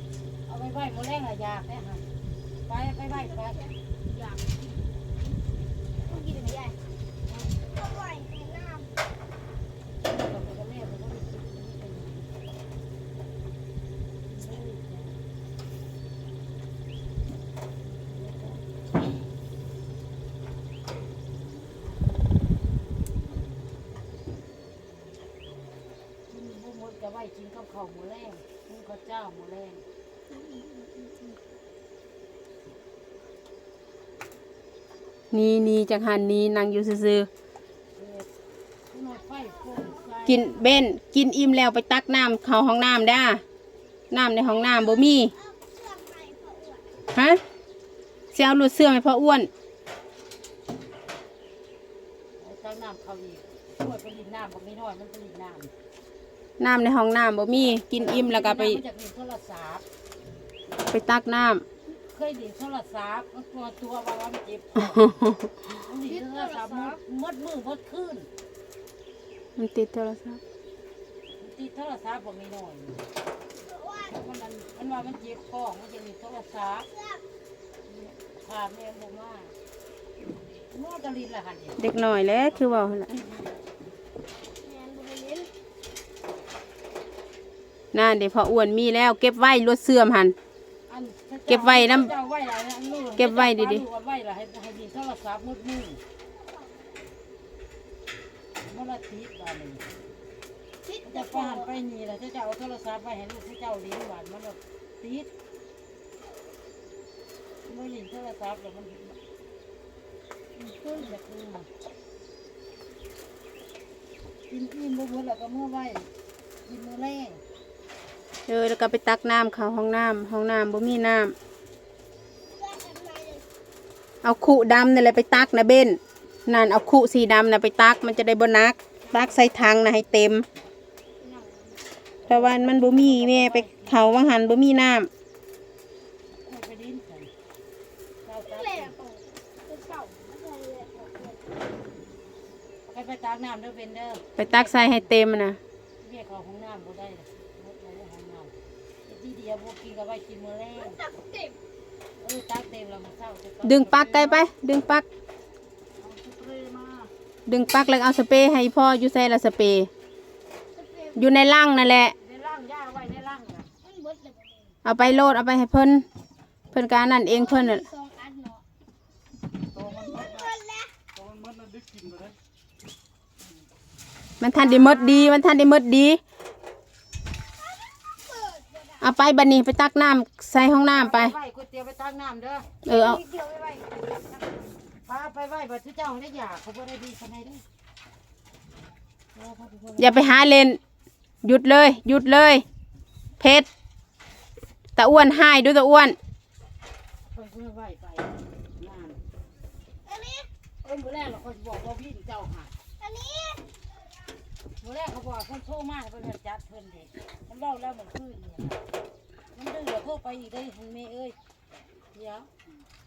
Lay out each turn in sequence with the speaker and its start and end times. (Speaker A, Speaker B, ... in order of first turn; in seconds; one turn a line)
Speaker A: 0.5-2.1
Speaker A: 2.7-3.6
Speaker B: 3.1-4.6
Speaker B: 6.0-6.8
Speaker A: 7.3-7.5
Speaker B: 7.7-8.9
Speaker A: 10.0-12.3
Speaker A: 14.3-15.2
Speaker A: 18.0-18.6
Speaker A: 26.3-29.8
Speaker B: 30.4-31.2
Speaker C: 35.3-37.3
Speaker A: 38.0-38.3
Speaker A: 38.9-40.6
Speaker C: 40.3-43.4
Speaker C: 44.1-45.3
Speaker B: 44.6-47.0
Speaker C: 47.1-47.4
Speaker C: 48.3-49.5
Speaker A: 52.4-55.7
Speaker C: 56.6-58.8
Speaker A: 57.9-59.8
Speaker C: 60.9-61.6
Speaker A: 61.9-68.3
Speaker B: 66.1-67.0
Speaker C: 69.5-70.4
Speaker A: 71.4-73.0
Speaker B: 73.6-74.1
Speaker A: 74.1-76.9
Speaker B: 76.9-77.2
Speaker A: 77.9-79.5
Speaker A: 80.7-81.8
Speaker C: 81.8-83.2
Speaker B: 84.6-85.5
Speaker C: 87.9-90.3
Speaker A: 90.9-96.0
Speaker C: 91.5-92.1
Speaker C: 93.2-93.8
Speaker A: 98.6-99.8
Speaker B: 100.8-101.7
Speaker A: 101.0-105.3
Speaker A: 107.6-109.2
Speaker B: 110.6-111.1
Speaker A: 110.9-111.7
Speaker A: 114.5-116.1
Speaker A: 116.6-117.4
Speaker C: 118.5-121.3
Speaker B: 122.5-123.4
Speaker C: 124.2-130.4
Speaker B: 129.1-129.4
Speaker B: 131.2-131.8
Speaker A: 132.2-134.1
Speaker C: 132.3-135.1
Speaker A: 136.3-137.3
Speaker A: 138.2-138.9
Speaker B: 138.4-141.5
Speaker A: 142.9-145.1
Speaker C: 144.4-145.6
Speaker A: 146.0-148.5
Speaker A: 149.1-151.0
Speaker B: 150.9-151.5
Speaker A: 152.2-154.5
Speaker C: 153.6-155.0
Speaker A: 156.0-157.1
Speaker C: 157.5-159.9
Speaker B: 160.8-161.2
Speaker C: 161.2-162.1
Speaker A: 162.2-163.7
Speaker B: 163.8-164.7
Speaker C: 164.8-166.1
Speaker C: 166.7-167.9
Speaker B: 167.3-168.6
Speaker A: 169.7-170.5
Speaker B: 169.8-170.9
Speaker A: 171.1-172.3
Speaker C: 174.4-176.2
Speaker A: 174.6-175.1
Speaker B: 174.8-175.1
Speaker B: 177.9-179.0
Speaker C: 179.0-181.3
Speaker A: 180.9-182.7
Speaker C: 182.8-183.2
Speaker B: 182.9-184.0
Speaker A: 185.0-187.6
Speaker A: 189.3-190.4
Speaker C: 190.0-190.8
Speaker C: 191.4-192.6
Speaker C: 193.4-193.7
Speaker C: 195.0-196.2
Speaker A: 197.3-199.2
Speaker B: 200.1-200.5
Speaker A: 200.8-202.7
Speaker B: 203.0-203.6
Speaker A: 204.8-208.8
Speaker A: 209.5-211.3
Speaker A: 212.1-212.5